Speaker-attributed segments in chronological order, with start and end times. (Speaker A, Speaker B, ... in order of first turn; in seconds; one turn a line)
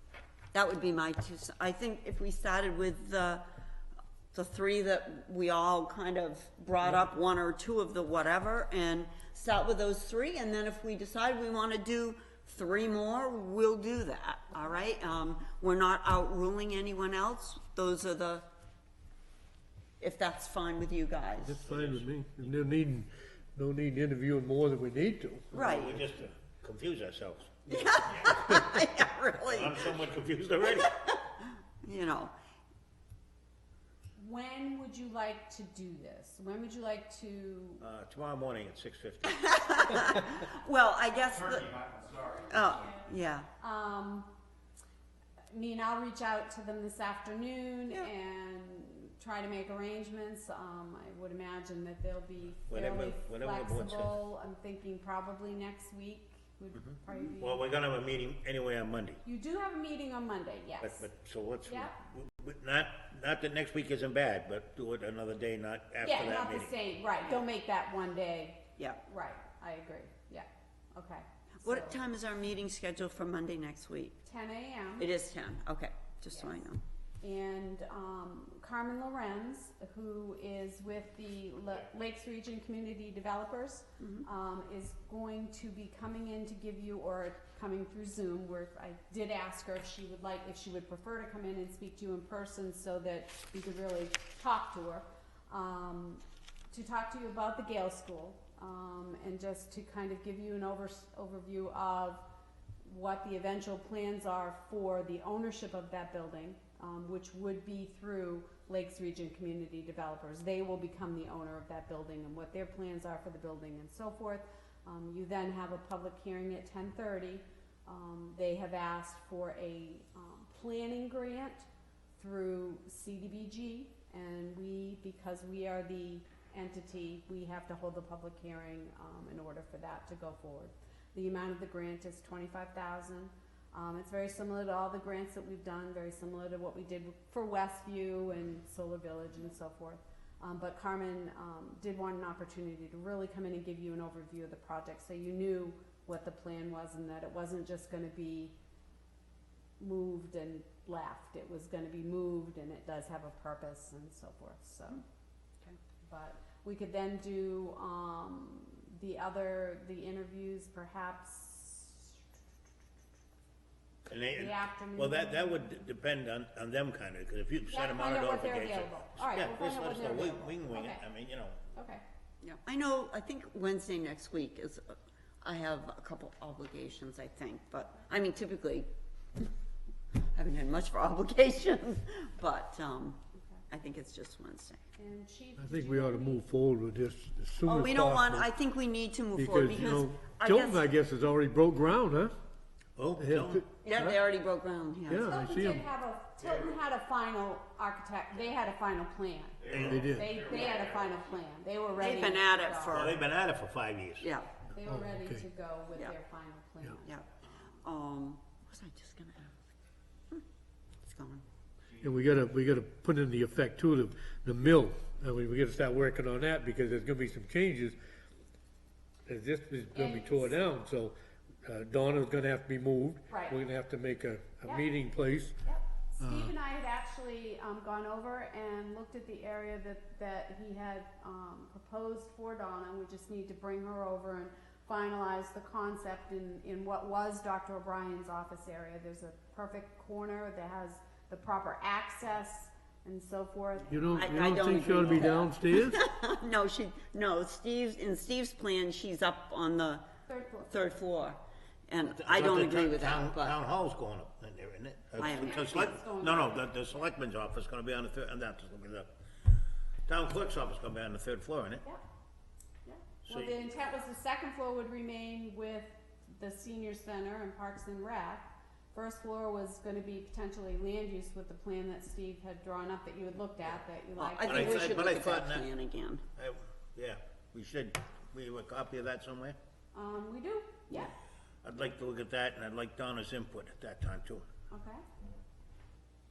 Speaker A: 0.5-3.4
Speaker A: 4.3-18.4
Speaker A: 20.0-21.6
Speaker B: 21.5-25.6
Speaker C: 21.6-22.6
Speaker A: 25.5-26.0
Speaker C: 25.5-28.6
Speaker A: 27.7-30.0
Speaker C: 29.4-31.0
Speaker A: 30.8-32.3
Speaker D: 34.2-37.8
Speaker C: 37.8-40.1
Speaker A: 39.3-43.5
Speaker D: 43.6-44.3
Speaker D: 45.5-57.6
Speaker C: 52.7-54.1
Speaker C: 57.4-59.2
Speaker D: 59.2-61.0
Speaker C: 60.8-66.7
Speaker D: 61.7-61.9
Speaker D: 66.0-72.0
Speaker A: 71.6-74.2
Speaker D: 74.2-75.1
Speaker A: 75.0-76.8
Speaker D: 76.3-76.6
Speaker D: 77.2-102.2
Speaker A: 84.0-84.2
Speaker D: 102.8-148.5
Speaker D: 149.8-155.0
Speaker D: 156.1-162.1
Speaker C: 164.1-171.6
Speaker D: 164.3-165.7
Speaker D: 167.7-171.0
Speaker D: 171.8-172.0
Speaker A: 172.4-178.9
Speaker A: 180.3-184.8
Speaker D: 185.0-186.5
Speaker B: 185.6-188.5
Speaker A: 187.6-190.8
Speaker B: 189.3-192.3
Speaker C: 193.0-193.6
Speaker B: 193.2-194.2
Speaker A: 193.8-195.4
Speaker B: 195.1-195.8
Speaker D: 195.1-203.1
Speaker C: 199.6-200.5
Speaker B: 199.8-200.4
Speaker A: 202.0-203.2
Speaker C: 202.9-204.2
Speaker A: 204.2-204.5
Speaker D: 204.7-207.1
Speaker B: 204.8-205.4
Speaker A: 207.8-209.6
Speaker A: 211.0-211.4
Speaker B: 212.0-218.0
Speaker B: 219.2-225.6
Speaker D: 219.9-220.5
Speaker D: 223.3-223.6
Speaker D: 224.6-225.0
Speaker D: 225.6-244.2
Speaker B: 226.2-226.5
Speaker B: 243.9-246.0
Speaker A: 244.1-250.1
Speaker D: 244.9-245.3
Speaker D: 250.3-250.7
Speaker A: 250.7-253.6
Speaker C: 252.1-259.1
Speaker A: 255.2-255.9
Speaker D: 255.2-256.7
Speaker C: 260.1-261.8
Speaker D: 262.9-275.2
Speaker C: 263.2-263.5
Speaker A: 274.1-276.2
Speaker C: 274.4-275.7
Speaker C: 276.4-279.6
Speaker D: 279.9-281.1
Speaker C: 281.6-284.4
Speaker D: 284.7-285.0